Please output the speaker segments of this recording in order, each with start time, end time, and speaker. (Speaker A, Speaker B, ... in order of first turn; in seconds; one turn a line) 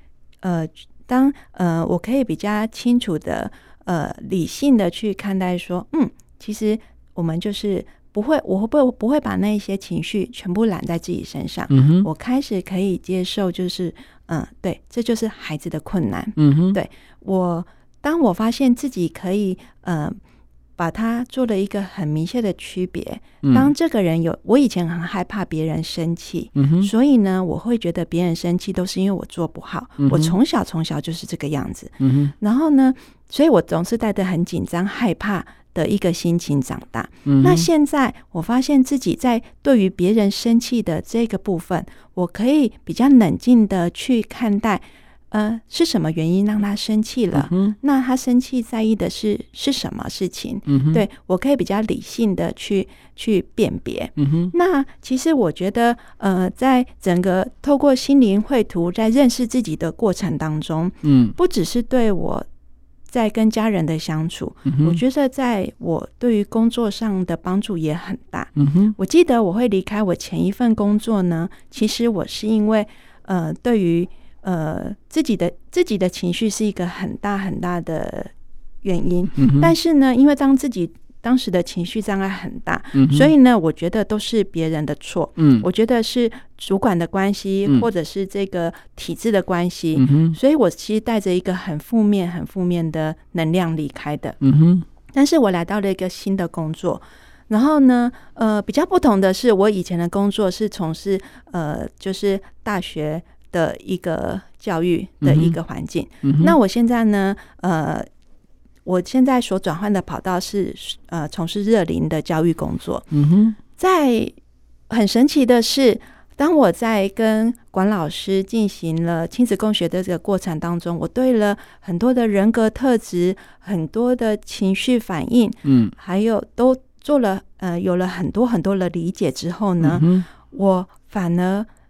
Speaker A: 0.4-20.2
Speaker B: 11.7-12.1
Speaker B: 16.4-16.8
Speaker A: 20.8-62.5
Speaker B: 23.4-23.7
Speaker B: 26.6-26.9
Speaker B: 30.0-30.3
Speaker B: 32.0-32.3
Speaker B: 37.2-37.7
Speaker B: 47.3-47.8
Speaker B: 50.7-51.0
Speaker B: 54.2-54.5
Speaker B: 61.0-61.4
Speaker A: 63.1-78.3
Speaker B: 64.7-65.0
Speaker B: 68.5-68.9
Speaker A: 78.8-94.4
Speaker B: 79.3-79.7
Speaker B: 82.9-83.3
Speaker B: 85.4-85.7
Speaker B: 89.9-90.4
Speaker B: 94.4-94.8
Speaker A: 95.1-108.1
Speaker B: 105.2-105.5
Speaker B: 106.2-106.5
Speaker A: 108.8-113.1
Speaker B: 113.1-113.6
Speaker A: 113.8-114.3
Speaker A: 114.9-131.7
Speaker B: 125.6-125.9
Speaker B: 129.8-130.2